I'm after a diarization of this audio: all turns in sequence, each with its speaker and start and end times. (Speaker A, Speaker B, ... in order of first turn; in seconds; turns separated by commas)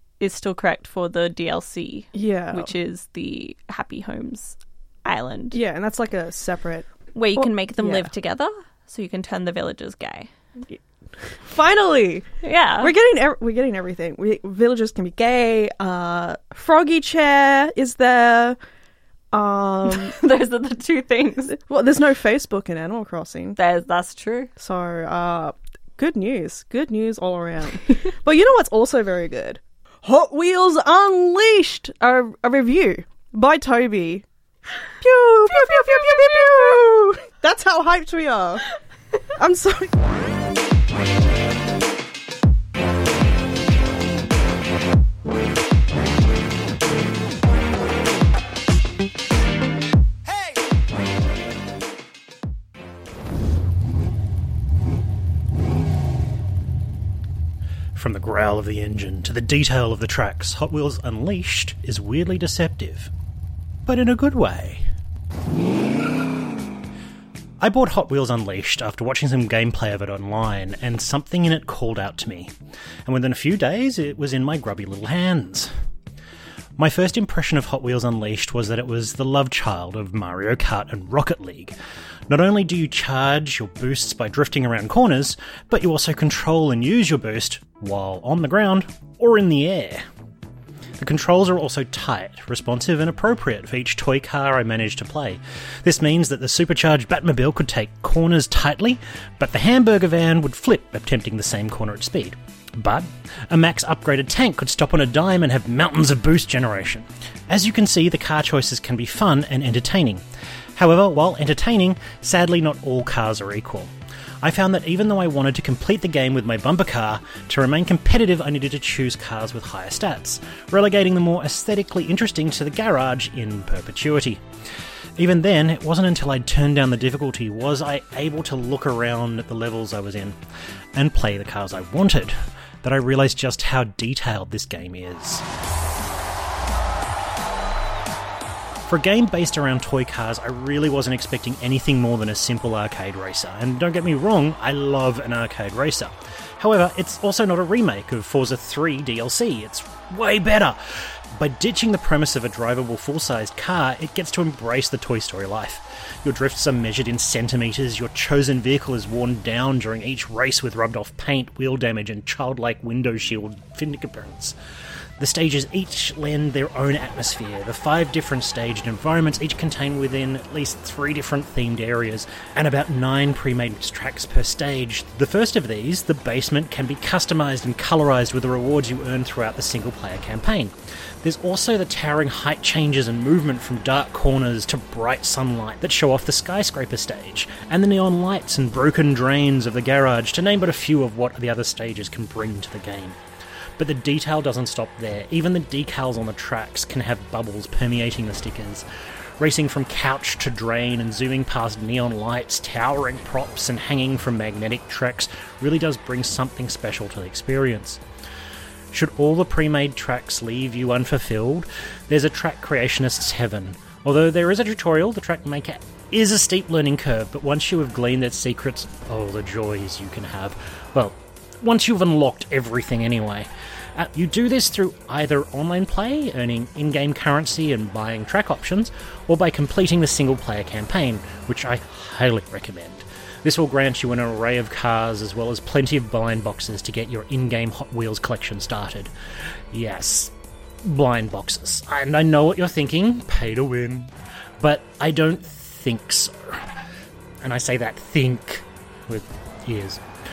Speaker A: 0.2-5.6, Speaker B: 2.1-2.7, Speaker B: 5.5-8.1, Speaker A: 7.1-10.3, Speaker B: 10.7-12.3, Speaker A: 12.4-12.9, Speaker B: 12.8-18.6, Speaker B: 19.3-20.1, Speaker A: 19.9-21.5, Speaker B: 21.5-23.6, Speaker A: 23.6-24.5, Speaker B: 24.6-34.2, Speaker B: 35.0-38.6, Speaker A: 35.5-36.7, Speaker B: 39.3-39.9, Speaker C: 57.9-63.1, Speaker C: 63.9-64.8, Speaker C: 67.6-72.5, Speaker C: 73.0-75.7, Speaker C: 76.8-81.7, Speaker C: 82.3-90.0, Speaker C: 91.0-110.2, Speaker C: 110.8-124.4, Speaker C: 125.2-130.4, Speaker C: 130.9-135.4, Speaker C: 138.8-164.6, Speaker C: 165.2-193.2, Speaker C: 193.8-198.8, Speaker C: 199.4-208.0, Speaker C: 208.9-239.1, Speaker C: 239.7-246.7, Speaker C: 247.4-250.0